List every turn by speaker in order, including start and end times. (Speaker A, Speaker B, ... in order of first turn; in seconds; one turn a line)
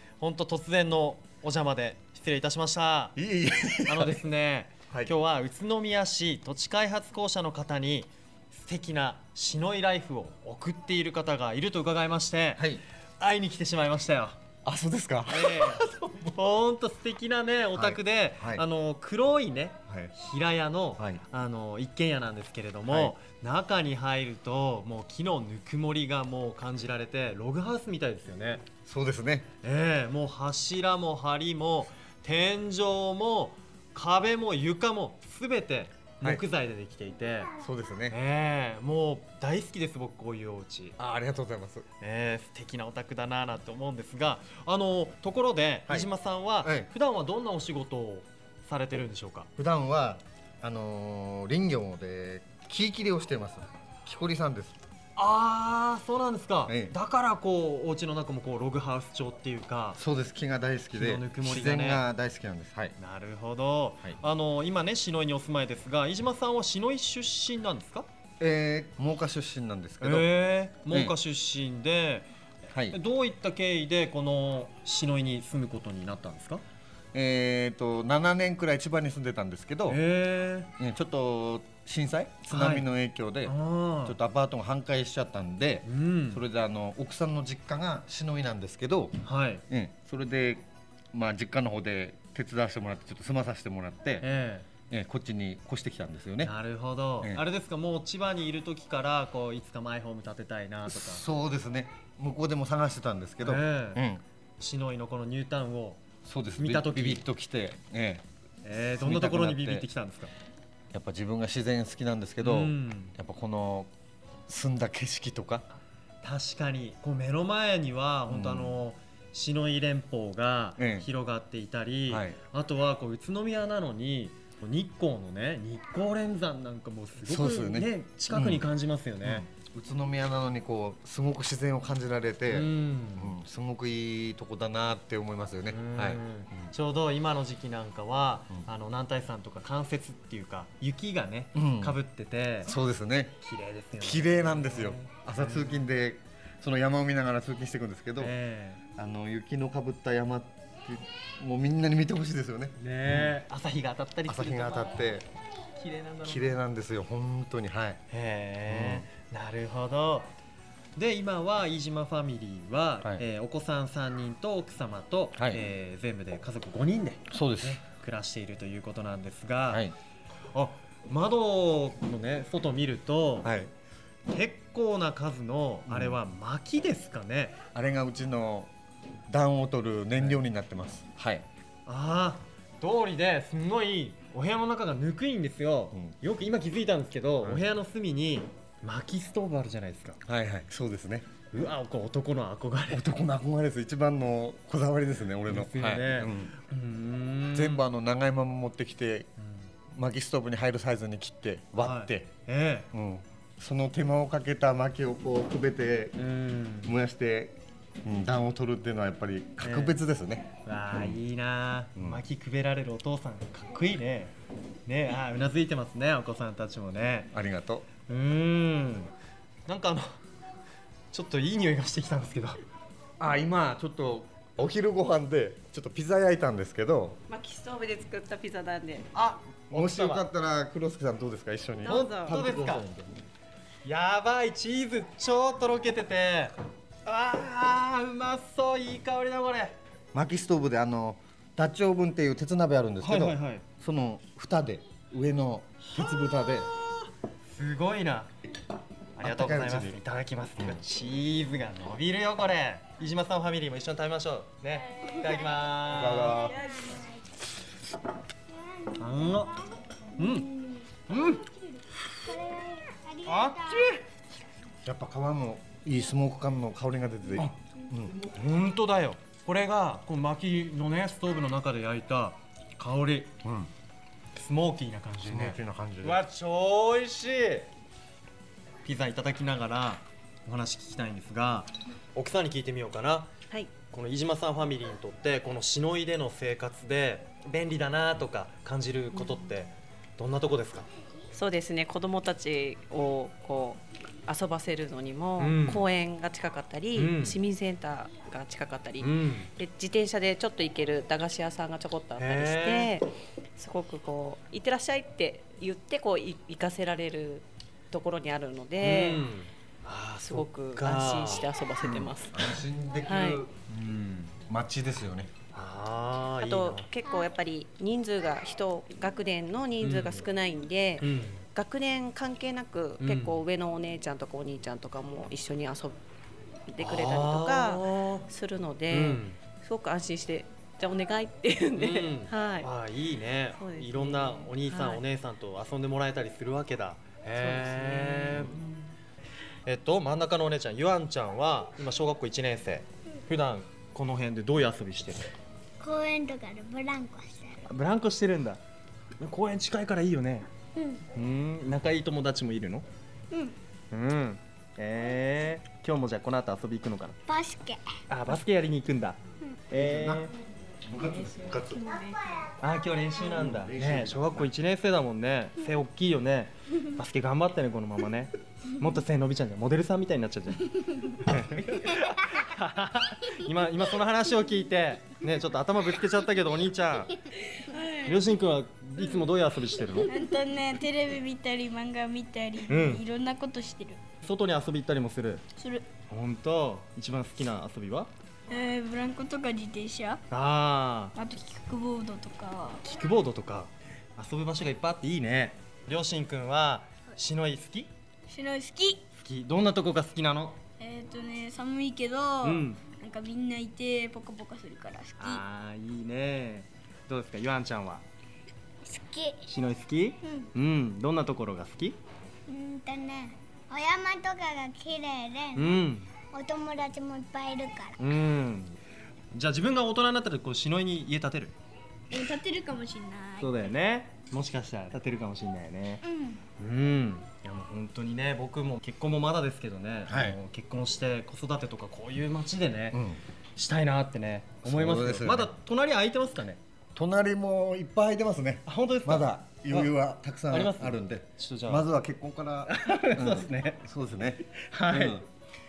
Speaker A: 0.2-3.2
Speaker B: 3.2-4.2
Speaker A: 3.9-14.4
Speaker B: 12.6-12.8
Speaker B: 14.6-16.3
Speaker A: 15.3-28.6
Speaker B: 17.7-18.6
Speaker B: 19.9-20.1
Speaker B: 22.9-23.1
Speaker B: 28.8-29.5
Speaker A: 29.6-37.5
Speaker B: 37.5-38.2
Speaker A: 38.1-41.0
Speaker B: 41.0-41.8
Speaker A: 42.0-49.5
Speaker B: 46.6-46.9
Speaker B: 49.6-54.8
Speaker A: 55.1-60.0
Speaker B: 56.6-57.0
Speaker B: 60.0-63.0
Speaker A: 60.9-62.0
Speaker A: 63.0-68.1
Speaker B: 68.4-70.3
Speaker A: 70.0-72.3
Speaker B: 70.9-71.1
Speaker B: 72.7-73.0
Speaker A: 72.9-76.6
Speaker B: 77.1-80.0
Speaker A: 79.9-80.7
Speaker B: 80.8-89.2
Speaker A: 82.5-82.9
Speaker A: 83.5-84.2
Speaker A: 85.8-86.4
Speaker A: 89.2-89.6
Speaker B: 89.7-94.3
Speaker A: 94.2-94.7
Speaker B: 94.9-96.5
Speaker A: 96.4-101.2
Speaker B: 100.9-104.2
Speaker A: 103.4-104.0
Speaker A: 104.6-106.0
Speaker B: 106.2-109.9
Speaker A: 106.6-107.2
Speaker A: 108.6-110.3
Speaker B: 110.9-113.9
Speaker A: 112.4-113.1
Speaker B: 114.5-115.6
Speaker A: 116.2-129.4
Speaker B: 118.3-118.8
Speaker B: 120.8-121.1
Speaker B: 122.1-122.4
Speaker B: 127.2-128.7
Speaker B: 129.2-136.7
Speaker A: 132.5-133.4
Speaker A: 135.7-142.7
Speaker B: 141.5-142.0
Speaker B: 142.7-143.4
Speaker A: 143.4-145.8
Speaker B: 144.0-148.3
Speaker A: 148.2-148.8
Speaker B: 148.9-153.4
Speaker A: 152.8-155.1
Speaker B: 154.2-155.3
Speaker A: 155.8-156.5
Speaker B: 156.2-158.0
Speaker A: 158.1-160.3
Speaker B: 158.7-159.1
Speaker A: 160.9-169.9
Speaker B: 165.4-165.6
Speaker B: 167.3-167.8
Speaker B: 169.7-169.9
Speaker A: 170.5-173.5
Speaker B: 173.4-173.7
Speaker A: 174.3-177.6
Speaker B: 175.9-176.2
Speaker B: 177.7-178.7
Speaker B: 179.3-181.4
Speaker A: 181.8-190.2
Speaker B: 190.2-191.3
Speaker A: 191.5-193.1
Speaker B: 192.9-196.6
Speaker A: 195.5-197.8
Speaker B: 197.5-199.3
Speaker B: 199.9-202.3
Speaker A: 201.8-202.9
Speaker B: 202.9-206.2
Speaker A: 206.2-206.9
Speaker B: 206.8-211.2
Speaker A: 209.6-210.0
Speaker A: 210.6-214.3
Speaker B: 211.9-212.2
Speaker A: 214.8-217.3
Speaker B: 217.3-217.9
Speaker A: 218.1-219.1
Speaker A: 219.7-220.1
Speaker A: 221.1-222.6
Speaker B: 223.2-227.2
Speaker C: 227.3-229.1
Speaker A: 229.1-230.2
Speaker B: 229.7-233.2
Speaker C: 231.8-232.5
Speaker A: 231.8-232.9
Speaker A: 233.8-236.5
Speaker A: 237.0-239.8
Speaker B: 240.1-246.7
Speaker A: 243.0-243.6
Speaker A: 245.9-248.3
Speaker A: 249.2-256.5
Speaker B: 249.2-250.0
Speaker B: 255.8-256.7
Speaker D: 256.4-257.0
Speaker A: 258.9-259.6
Speaker A: 260.1-261.4
Speaker E: 262.3-263.8
Speaker A: 263.2-264.0
Speaker B: 264.8-268.3
Speaker A: 268.2-273.3
Speaker B: 273.4-273.7
Speaker A: 274.3-277.7
Speaker B: 275.2-276.2
Speaker A: 278.8-283.3
Speaker A: 283.9-290.9
Speaker C: 291.3-309.2
Speaker A: 295.4-295.8
Speaker A: 296.9-297.4
Speaker A: 299.0-299.5
Speaker A: 302.2-302.9
Speaker A: 308.8-312.1
Speaker C: 310.2-312.5
Speaker B: 312.3-313.5
Speaker C: 313.0-313.4
Speaker A: 313.7-314.3
Speaker B: 314.3-315.3
Speaker A: 315.5-316.9
Speaker C: 316.4-325.9
Speaker A: 319.8-320.2
Speaker A: 321.0-321.4
Speaker A: 323.0-323.4
Speaker C: 326.7-332.7
Speaker A: 326.8-328.2
Speaker A: 328.9-329.4
Speaker A: 331.7-338.6
Speaker C: 333.5-335.0
Speaker C: 337.3-338.6
Speaker A: 339.6-345.2
Speaker E: 345.9-347.4
Speaker A: 347.6-348.6
Speaker A: 349.2-350.5
Speaker A: 351.1-352.9
Speaker A: 353.9-357.2
Speaker E: 357.3-357.8
Speaker A: 358.1-360.3
Speaker B: 359.7-360.3
Speaker B: 360.8-361.8
Speaker A: 362.6-377.2
Speaker B: 363.2-364.5
Speaker D: 377.5-378.1
Speaker A: 377.9-380.1
Speaker D: 379.9-384.0
Speaker A: 382.7-383.0
Speaker A: 384.2-385.4
Speaker D: 385.6-385.9
Speaker A: 386.1-388.1
Speaker D: 388.5-390.2
Speaker A: 390.3-391.1
Speaker D: 391.1-392.8
Speaker A: 392.8-397.9
Speaker D: 398.3-399.0
Speaker A: 399.1-400.6
Speaker D: 400.8-405.4
Speaker A: 402.4-402.8
Speaker A: 405.2-408.0
Speaker E: 408.9-409.4
Speaker A: 409.5-412.0
Speaker E: 412.5-415.6
Speaker A: 415.5-416.1
Speaker E: 416.3-417.9
Speaker A: 418.0-418.8
Speaker A: 419.3-421.5
Speaker D: 422.1-423.5
Speaker A: 423.4-426.0
Speaker A: 426.6-433.0
Speaker B: 430.1-430.4
Speaker B: 432.9-433.2
Speaker A: 433.6-436.6
Speaker B: 434.6-435.5
Speaker B: 436.9-445.2
Speaker A: 438.6-439.9
Speaker A: 440.5-441.9
Speaker A: 442.7-443.8
Speaker A: 444.5-445.2